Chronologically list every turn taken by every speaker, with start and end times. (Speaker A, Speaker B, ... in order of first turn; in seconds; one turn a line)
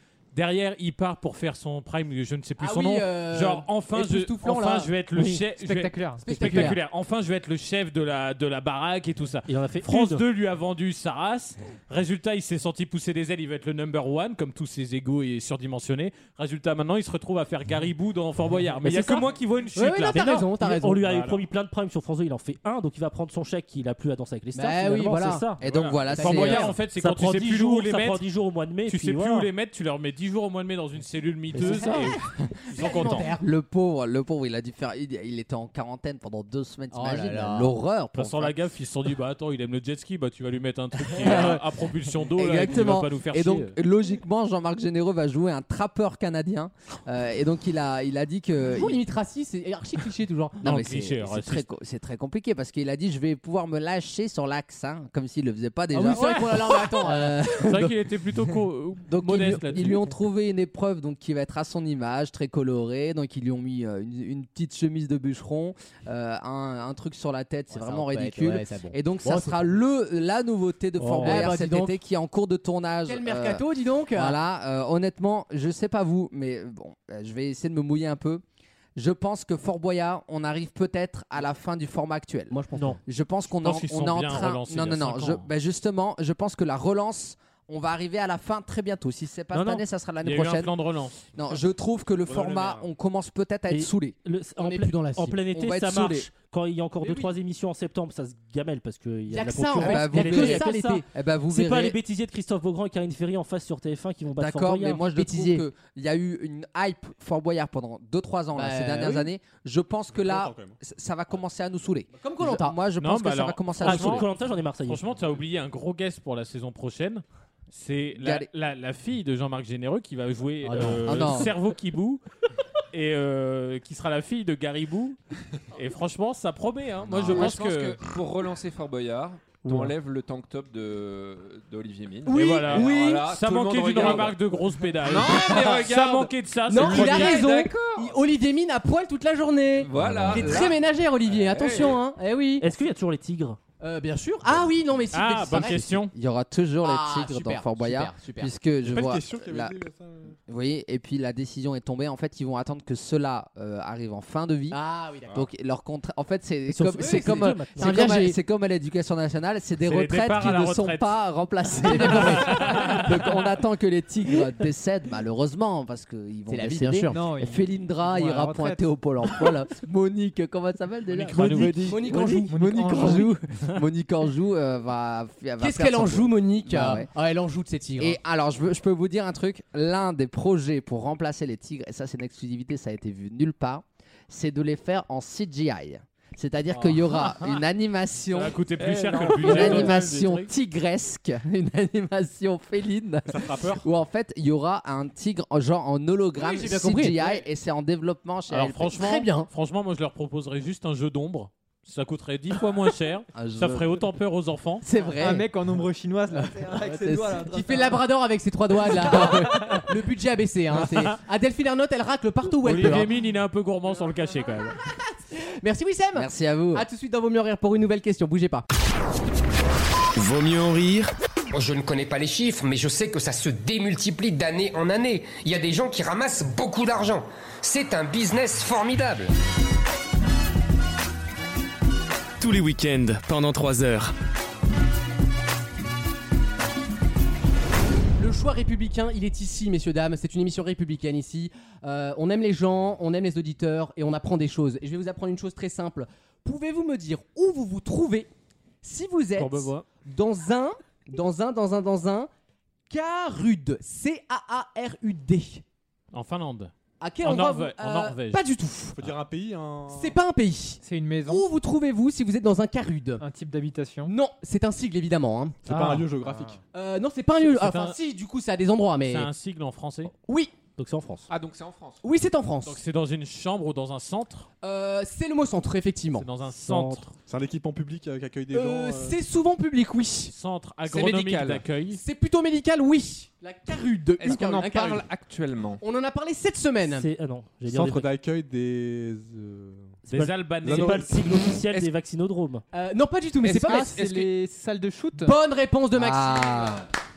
Speaker A: 0.3-20.4
Speaker B: 2.6-4.9
Speaker C: 5.1-5.5
Speaker D: 5.5-6.4
Speaker B: 6.2-6.8
Speaker C: 9.5-10.2
Speaker C: 18.8-19.3
Speaker B: 19.8-21.1
Speaker C: 20.1-29.5
Speaker A: 21.1-21.4
Speaker B: 24.6-25.5
Speaker E: 25.6-26.8
Speaker A: 25.6-28.2
Speaker B: 26.2-26.8
Speaker A: 28.9-33.3
Speaker C: 31.5-32.2
Speaker B: 31.7-32.0
Speaker B: 32.7-33.5
Speaker E: 33.3-38.5
Speaker B: 36.9-37.7
Speaker A: 38.1-43.7
Speaker E: 41.1-41.6
Speaker B: 41.3-41.5
Speaker E: 42.3-49.0
Speaker B: 48.6-50.7
Speaker E: 50.6-58.0
Speaker A: 50.6-51.6
Speaker B: 55.9-57.9
Speaker A: 56.2-56.7
Speaker A: 57.6-60.1
Speaker E: 59.1-78.4
Speaker B: 67.7-69.8
Speaker C: 71.0-71.5
Speaker B: 71.2-72.0
Speaker B: 73.1-74.4
Speaker E: 79.0-90.7
Speaker B: 82.5-83.0
Speaker A: 83.5-85.5
Speaker C: 89.5-89.9
Speaker A: 90.2-91.3
Speaker E: 91.3-94.2
Speaker F: 92.2-92.9
Speaker C: 93.7-105.1
Speaker B: 94.6-95.4
Speaker E: 95.5-96.3
Speaker B: 99.3-101.0
Speaker E: 99.8-102.0
Speaker E: 104.4-114.3
Speaker B: 105.1-105.6
Speaker B: 108.5-109.3
Speaker F: 110.1-110.8
Speaker B: 112.2-112.8
Speaker A: 113.0-122.2
Speaker C: 113.8-115.1
Speaker E: 118.2-118.5
Speaker C: 120.6-121.5
Speaker B: 120.7-121.0
Speaker E: 121.0-121.5
Speaker A: 122.9-125.2
Speaker A: 125.7-128.0
Speaker G: 127.1-134.4
Speaker C: 129.6-129.9
Speaker B: 132.3-133.2
Speaker A: 132.3-137.4
Speaker B: 133.9-134.2
Speaker G: 135.0-138.2
Speaker B: 136.7-142.7
Speaker G: 139.9-140.8
Speaker E: 139.9-140.7
Speaker G: 141.3-142.0
Speaker C: 142.6-143.6
Speaker B: 143.8-145.9
Speaker A: 145.1-146.1
Speaker E: 145.5-149.8
Speaker B: 146.8-148.5
Speaker F: 148.8-150.4
Speaker E: 150.5-177.1
Speaker B: 154.7-155.5
Speaker C: 156.7-158.1
Speaker B: 157.0-158.4
Speaker A: 159.8-161.1
Speaker B: 161.8-163.0
Speaker A: 162.3-163.1
Speaker B: 166.5-167.2
Speaker D: 167.1-168.9
Speaker A: 171.1-172.1
Speaker B: 171.9-172.5
Speaker D: 172.5-173.4
Speaker B: 175.6-178.2
Speaker E: 178.0-188.6
Speaker A: 186.7-187.6
Speaker A: 188.3-190.5
Speaker C: 188.8-190.2
Speaker E: 189.2-198.9
Speaker F: 193.3-193.9
Speaker B: 196.4-197.4
Speaker A: 198.5-204.8
Speaker B: 198.9-199.5
Speaker E: 203.3-204.0
Speaker E: 204.8-205.5
Speaker D: 205.2-208.0
Speaker E: 206.3-207.4
Speaker B: 207.4-213.1
Speaker A: 212.6-214.8
Speaker B: 214.9-218.6
Speaker E: 216.1-216.9
Speaker H: 220.2-221.1
Speaker I: 221.5-229.3
Speaker H: 232.4-234.1
Speaker B: 238.2-248.3
Speaker B: 248.8-252.3
Speaker A: 249.4-249.9
Speaker B: 252.9-255.6
Speaker A: 256.1-256.7
Speaker B: 257.0-259.0
Speaker A: 257.2-258.4
Speaker F: 258.9-260.2
Speaker B: 259.9-263.2
Speaker D: 260.8-261.5
Speaker D: 263.2-264.1
Speaker B: 264.1-265.6
Speaker F: 265.7-266.6
Speaker C: 265.7-266.1
Speaker D: 266.3-266.6
Speaker B: 266.7-269.3
Speaker A: 267.4-268.0
Speaker A: 269.1-270.1
Speaker B: 270.3-270.5
Speaker C: 270.8-271.3
Speaker G: 271.3-272.0
Speaker B: 272.0-272.8
Speaker A: 272.6-274.5
Speaker B: 274.6-276.3
Speaker A: 276.1-277.1
Speaker C: 276.5-277.1
Speaker F: 277.3-279.2
Speaker B: 278.5-280.3
Speaker A: 280.3-282.0
Speaker G: 280.9-281.6
Speaker B: 281.9-285.0
Speaker G: 284.2-285.8
Speaker B: 285.8-287.1
Speaker C: 286.8-288.1
Speaker F: 287.6-290.1
Speaker C: 290.1-292.6
Speaker A: 290.1-291.2
Speaker F: 290.6-291.5
Speaker B: 292.7-294.2
Speaker G: 293.4-294.3
Speaker D: 293.4-295.4
Speaker B: 295.2-296.9
Speaker E: 295.9-296.9